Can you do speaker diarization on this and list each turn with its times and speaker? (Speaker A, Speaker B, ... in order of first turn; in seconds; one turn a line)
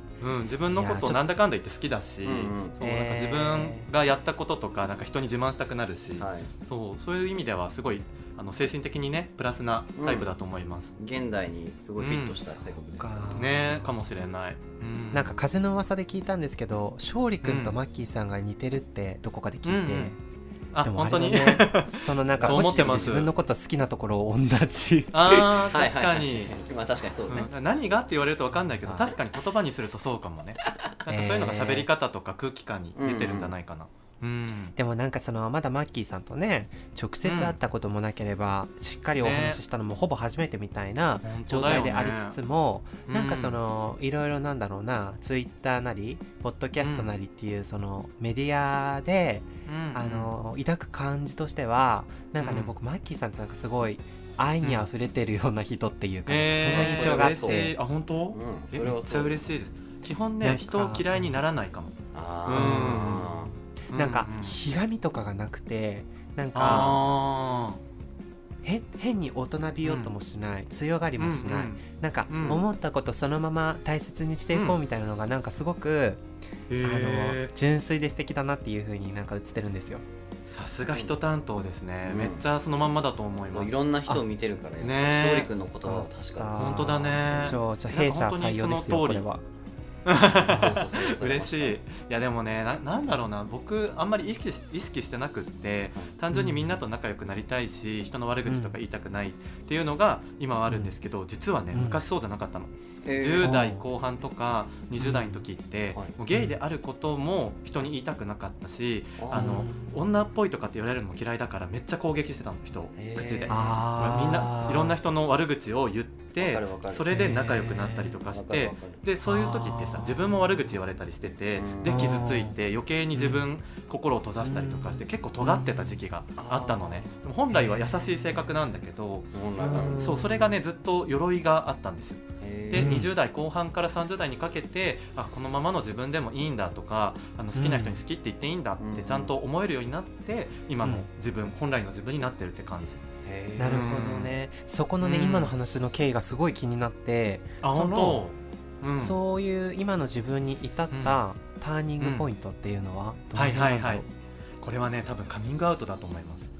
Speaker A: 0.2-10.9
Speaker B: 0.7-1.2
Speaker C: 2.2-2.8
Speaker B: 2.8-3.9
Speaker C: 6.2-6.5
Speaker C: 9.9-10.3
Speaker C: 11.0-13.4
Speaker A: 12.0-12.6
Speaker B: 13.0-14.0
Speaker A: 13.3-15.4
Speaker B: 15.1-20.2
Speaker A: 17.4-17.8
Speaker A: 19.6-20.1
Speaker A: 20.7-23.3
Speaker B: 20.8-25.7
Speaker C: 22.4-23.1
Speaker A: 25.1-26.6
Speaker C: 25.7-27.5
Speaker A: 27.3-34.7
Speaker B: 28.8-29.1
Speaker B: 31.1-31.9
Speaker C: 33.0-33.5
Speaker B: 34.8-57.7
Speaker A: 37.2-37.6
Speaker A: 39.2-39.6
Speaker A: 41.2-42.4
Speaker A: 43.1-43.6
Speaker A: 46.8-47.1
Speaker A: 49.6-50.3
Speaker A: 52.4-52.7
Speaker A: 54.6-54.9
Speaker A: 56.3-64.6
Speaker C: 56.7-57.7
Speaker C: 58.3-59.4
Speaker B: 60.4-61.4
Speaker C: 62.1-63.5
Speaker B: 62.5-63.3
Speaker B: 63.9-67.0
Speaker A: 66.5-67.8
Speaker C: 66.6-67.0
Speaker B: 68.6-76.2
Speaker A: 69.8-70.1
Speaker A: 71.2-72.6
Speaker A: 74.5-74.8
Speaker A: 76.7-77.5
Speaker B: 76.8-80.0
Speaker A: 80.5-83.7
Speaker C: 82.1-82.5
Speaker C: 83.5-87.1
Speaker A: 84.8-85.5
Speaker B: 85.9-89.4
Speaker A: 86.5-89.2
Speaker A: 90.0-143.0
Speaker C: 90.4-91.8
Speaker B: 96.3-96.8
Speaker B: 98.5-98.8
Speaker B: 100.7-100.9
Speaker B: 101.7-102.0
Speaker C: 103.0-103.5
Speaker B: 103.4-103.8
Speaker B: 105.0-105.4
Speaker B: 106.3-106.5
Speaker C: 109.2-109.7
Speaker B: 109.3-110.0
Speaker C: 112.9-113.6
Speaker B: 113.5-115.0
Speaker C: 116.4-117.1
Speaker B: 117.1-118.2
Speaker C: 118.3-119.0
Speaker B: 119.2-120.7
Speaker C: 121.5-122.2
Speaker B: 121.8-122.5
Speaker B: 123.1-123.5
Speaker B: 124.4-126.0
Speaker C: 126.4-127.1
Speaker B: 127.5-128.4
Speaker C: 129.3-130.1
Speaker B: 129.6-130.6
Speaker C: 132.4-133.0
Speaker B: 132.7-133.1
Speaker B: 137.6-138.0
Speaker C: 138.8-139.3
Speaker C: 143.2-143.9
Speaker B: 143.6-148.2
Speaker A: 143.6-144.3
Speaker A: 145.0-145.5
Speaker A: 147.6-149.2
Speaker B: 149.0-154.1
Speaker A: 150.9-151.2
Speaker A: 152.0-152.3
Speaker A: 153.3-154.0
Speaker A: 154.6-156.5